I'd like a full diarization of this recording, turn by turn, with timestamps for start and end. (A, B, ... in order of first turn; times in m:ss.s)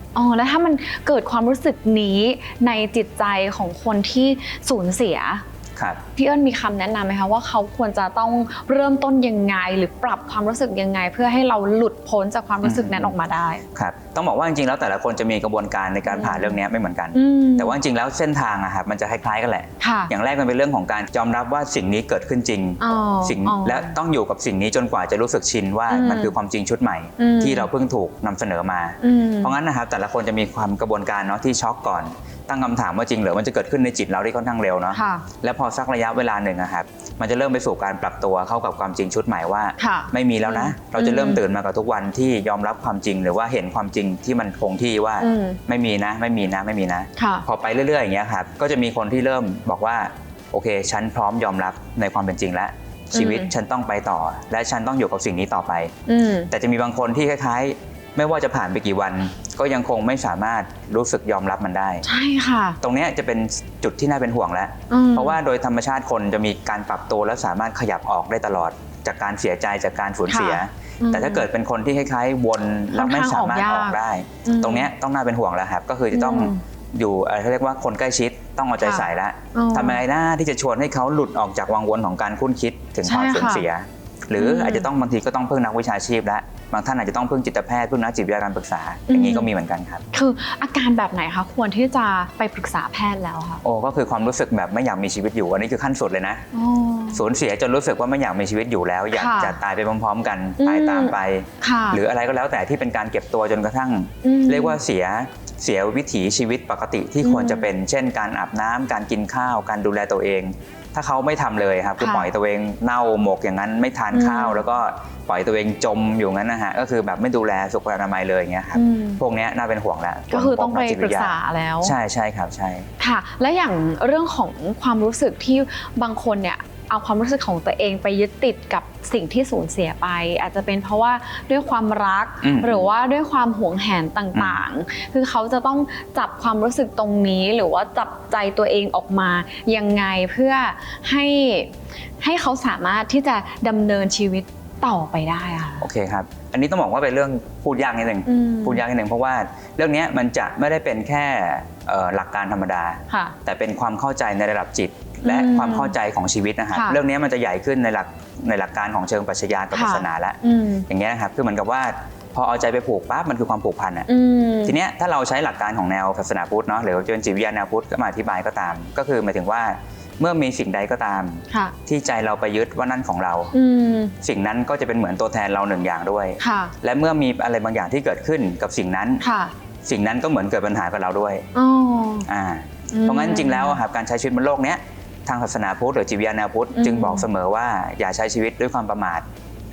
0:00.1-0:05.4 A
0:05.8-0:06.0 B
0:06.2-0:13.6 A
0:12.6-0:13.1 B
0:13.8-0:56.0 B
0:16.1-0:16.6 A
0:17.1-0:17.8 A
0:19.8-0:20.1 A
0:22.8-0:23.9 A
0:25.9-0:26.3 A
0:27.2-0:27.7 A
0:29.0-0:29.6 A
0:34.9-0:35.2 A
0:39.8-0:41.4 A
0:45.2-0:45.6 A
0:47.2-0:47.4 A
0:53.1-0:53.5 A
0:56.1-0:56.5 A
0:56.5-1:02.0 B
1:02.0-1:02.8 A
1:02.8-1:30.0 B
1:04.9-1:05.4 A
1:10.3-1:11.5 A
1:12.9-1:14.9 A
1:16.1-1:16.6 A
1:18.8-1:20.0 A
1:23.0-1:23.6 A
1:24.4-1:24.9 A
1:29.1-1:29.5 A
1:30.1-1:33.6 A
1:33.6-1:36.5 B
1:36.5-1:37.2 A
1:37.1-2:02.9 B
1:39.1-1:39.6 A
1:40.6-1:42.0 A
1:44.2-1:44.8 A
1:47.2-1:47.7 A
1:52.0-1:52.3 A
1:54.1-1:54.6 A
1:58.8-1:59.2 A
2:00.3-2:01.9 A
2:03.0-2:25.9 A
2:12.4-2:12.9 B
2:14.4-2:14.6 B
2:25.8-2:44.1 B
2:28.3-2:28.8 A
2:33.1-2:33.4 A
2:35.2-2:35.9 A
2:36.7-2:37.0 A
2:39.7-2:40.9 A
2:44.1-2:44.8 A
2:44.6-2:53.5 B
2:53.5-2:54.1 A
2:54.2-2:59.2 B
2:56.4-2:56.7 A
2:59.2-2:59.5 A
2:59.8-3:01.4 B
3:01.6-3:02.3 A
3:02.3-3:09.2 B
3:02.9-3:03.8 A
3:06.8-3:07.3 A